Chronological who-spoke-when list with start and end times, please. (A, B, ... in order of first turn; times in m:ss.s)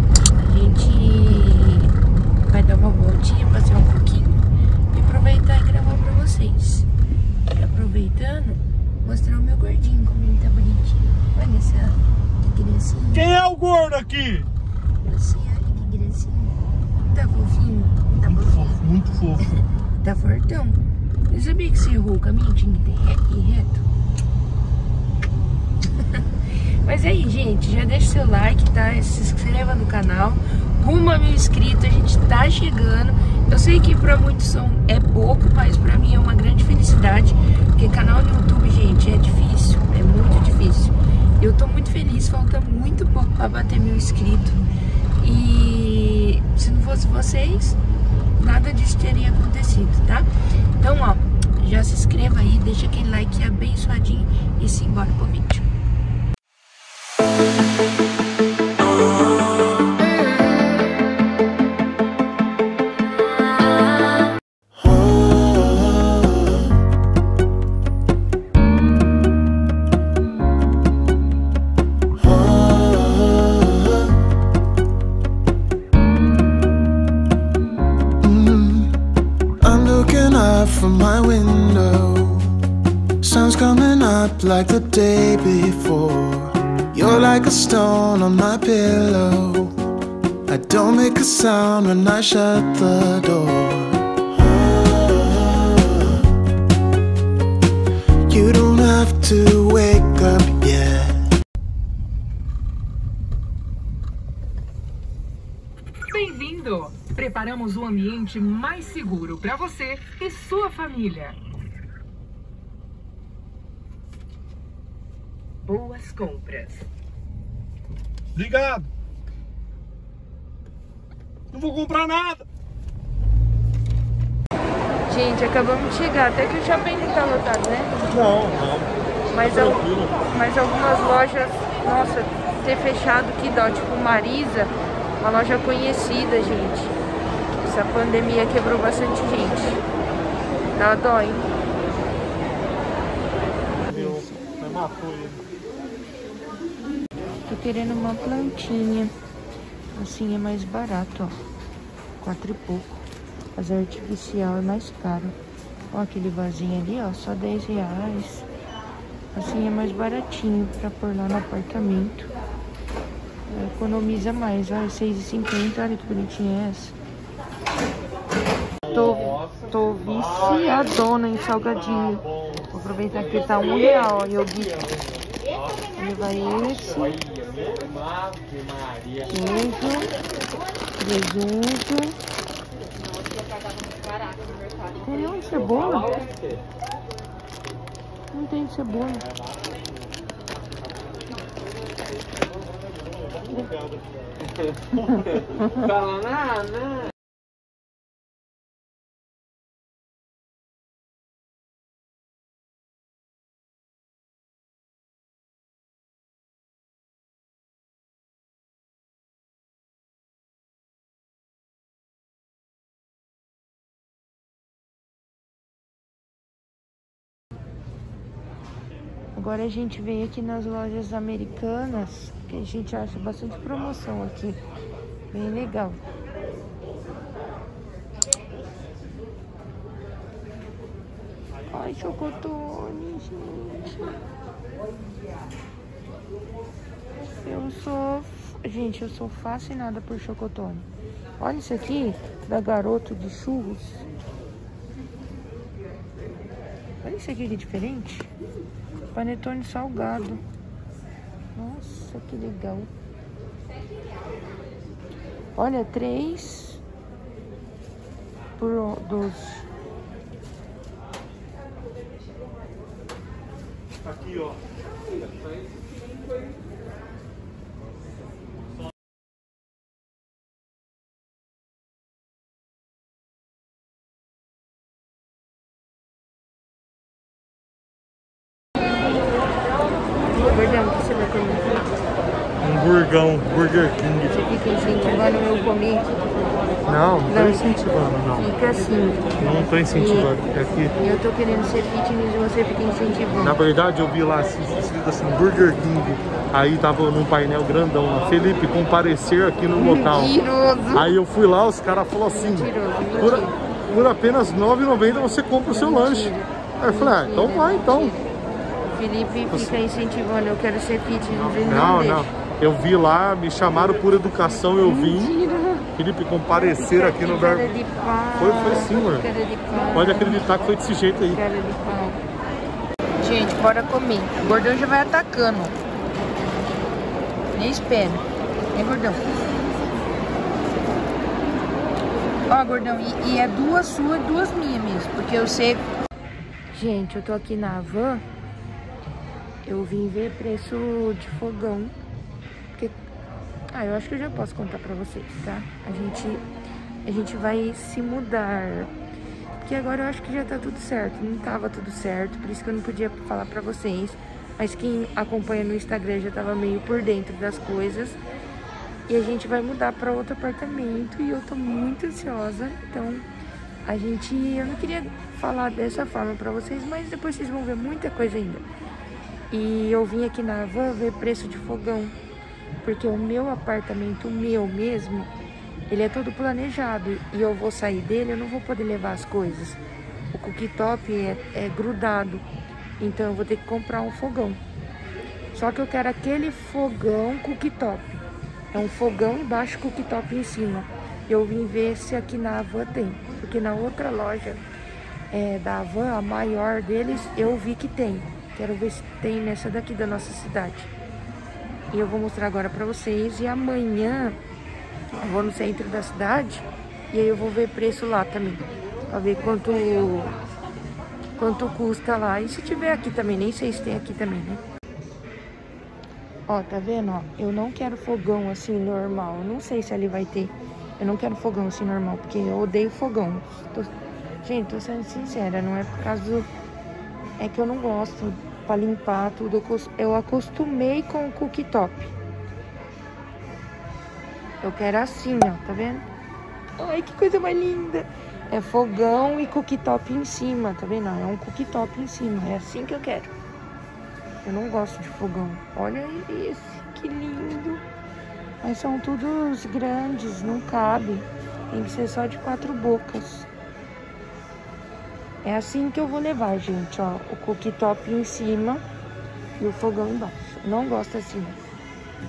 0:00.4-0:02.0 A
0:02.5-0:06.9 A
0:07.5-0:13.4 A
0:13.1-0:14.5 B
0:15.0-0:18.8 A
0:18.3-0:19.5 B
0:20.0-0:23.8 A
0:26.0-0:26.2 A
0:26.8-0:44.6 A
0:45.2-0:47.8 A
0:48.4-0:55.7 A
1:04.8-1:06.7 C
1:12.2-1:14.2 C
1:18.2-1:19.0 C
1:19.6-1:22.5 C
1:23.2-1:29.8 C
1:30.5-1:36.2 C
1:38.2-1:41.3 C
1:46.1-1:51.4 D
1:55.6-1:56.8 D
1:58.4-1:58.9 B
2:01.5-2:02.4 B
2:05.1-2:08.0 A
2:08.1-2:10.2 B
2:09.3-2:17.0 A
2:17.5-2:19.8 A
2:20.8-2:21.5 A
2:23.8-2:25.4 B
2:23.9-2:24.5 A
2:27.4-2:29.1 A
2:29.9-2:31.4 A
2:32.2-2:33.0 A
2:33.6-2:35.4 A
2:35.9-2:38.5 A
2:39.3-2:42.3 A
2:43.5-2:47.0 A
2:48.9-2:55.0 A
2:56.0-2:57.2 A
2:59.3-3:00.1 A
3:01.0-3:02.2 A
3:05.0-3:06.3 A
3:08.3-3:09.3 A
3:15.2-3:15.9 A
3:39.4-3:44.6 A
3:45.3-3:46.0 A
3:51.7-3:54.2 A
3:57.4-4:00.9 A
4:01.4-4:04.0 A
4:07.0-4:08.3 A
4:09.1-4:10.4 A
4:11.6-4:12.9 A
4:15.6-4:16.8 A
4:18.6-4:19.7 A
4:40.4-4:41.7 A
4:42.6-4:44.3 B
4:44.3-4:46.1 A
4:46.9-4:48.5 B
4:47.3-4:47.8 A
4:48.4-4:50.4 A
4:49.4-4:51.0 B
4:51.0-4:53.6 A
4:53.4-5:00.3 B
4:59.8-5:01.1 A
5:00.9-5:08.2 B
5:02.3-5:03.6 A
5:05.7-5:08.3 A
5:08.9-5:12.3 A
5:11.4-5:15.3 B
5:14.8-5:15.9 A
5:16.0-5:17.7 B
5:16.5-5:20.4 A
5:18.4-5:19.3 B
5:19.9-5:21.4 B
5:21.2-5:22.2 A
5:23.2-5:25.8 A
5:27.5-5:29.3 A
5:32.5-5:35.9 A
5:36.7-5:38.2 A
5:39.6-5:42.0 A
5:43.7-5:46.5 A
5:47.0-5:48.9 A
5:49.6-5:58.2 A
5:59.1-6:03.3 A
6:03.8-6:08.7 A
6:09.5-6:12.2 A
6:12.8-6:15.3 A
6:15.9-6:19.8 A
6:20.3-6:22.5 A
6:23.0-6:24.6 A
6:25.5-6:28.2 A
6:28.7-6:34.6 A
6:35.3-6:40.9 A
6:41.9-6:44.4 A
6:45.2-6:50.3 A
6:51.4-6:54.6 A
6:56.5-7:06.5 A
7:07.4-7:12.2 A
7:14.6-7:16.1 A
7:16.8-7:23.3 A
7:24.4-7:27.8 A
7:28.6-7:33.5 A
7:35.4-7:38.8 A
7:39.6-7:41.6 A